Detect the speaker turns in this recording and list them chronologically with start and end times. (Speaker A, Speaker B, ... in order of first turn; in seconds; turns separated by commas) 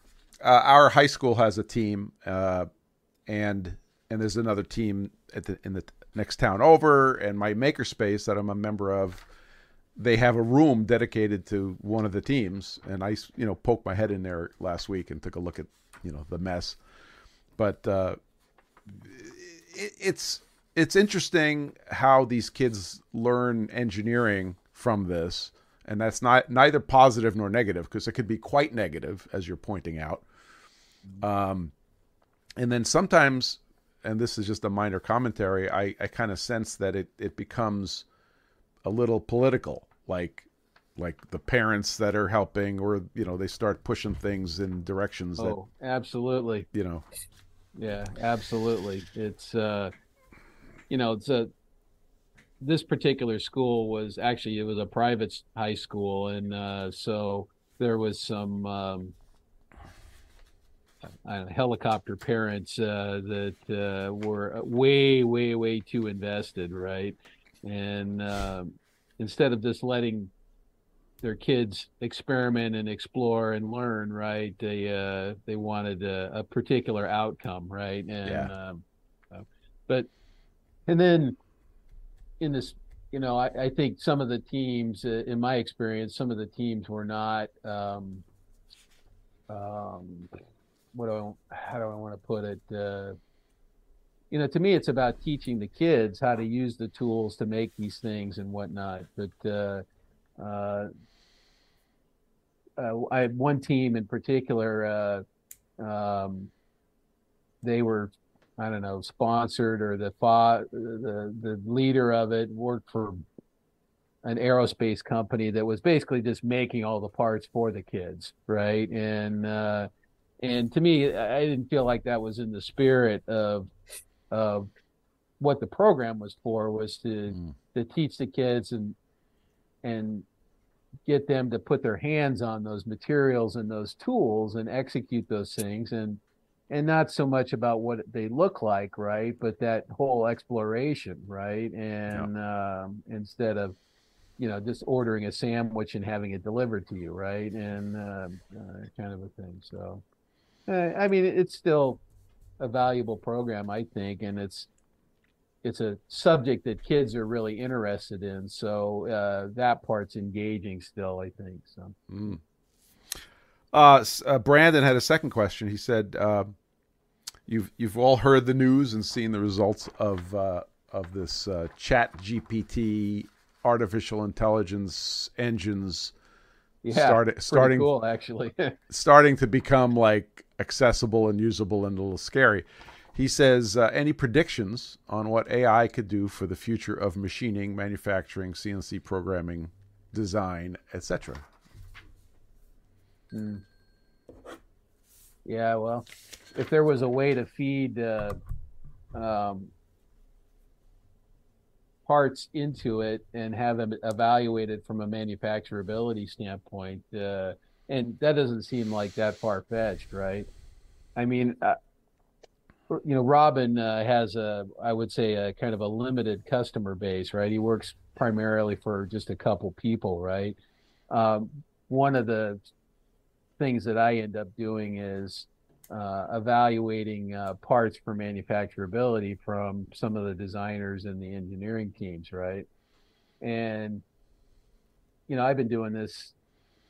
Speaker A: 0.4-2.7, Speaker A: 3.3-9.2, Speaker A: 10.0-16.8, Speaker A: 17.6-18.2, Speaker A: 19.0-30.2, Speaker A: 31.2-31.7, Speaker A: 32.6-38.0, Speaker A: 38.9-45.6, Speaker B: 45.4-46.7, Speaker A: 46.7-47.1, Speaker B: 47.8-49.9, Speaker B: 50.9-51.5, Speaker B: 52.6-59.1, Speaker B: 61.1-70.3, Speaker B: 71.2-80.1, Speaker A: 78.2-78.5, Speaker B: 80.9-81.4, Speaker B: 82.4-88.2, Speaker B: 89.5-90.3, Speaker B: 90.9-93.2, Speaker B: 94.3-99.8, Speaker B: 100.4-100.9, Speaker B: 102.8-105.2, Speaker B: 105.8-106.5, Speaker B: 107.6-113.2, Speaker B: 114.2-119.9, Speaker B: 120.4-123.7, Speaker B: 124.3-124.7, Speaker B: 125.4-129.0, Speaker B: 129.8-130.3, Speaker B: 131.1-143.8, Speaker B: 144.4-150.0, Speaker B: 150.7-152.0, Speaker B: 152.6-154.7, Speaker B: 155.6-162.0, Speaker A: 162.1-162.4, Speaker A: 163.7-166.5, Speaker A: 167.5-176.1, Speaker B: 176.8-178.8, Speaker A: 176.9-177.9, Speaker A: 178.9-191.4, Speaker B: 193.3-193.6, Speaker B: 195.4-198.4, Speaker B: 199.1-199.7, Speaker B: 202.1-210.5, Speaker B: 211.2-211.8, Speaker B: 212.9-220.6, Speaker B: 221.1-222.6, Speaker B: 223.6-232.7, Speaker B: 233.4-234.0, Speaker B: 235.3-236.3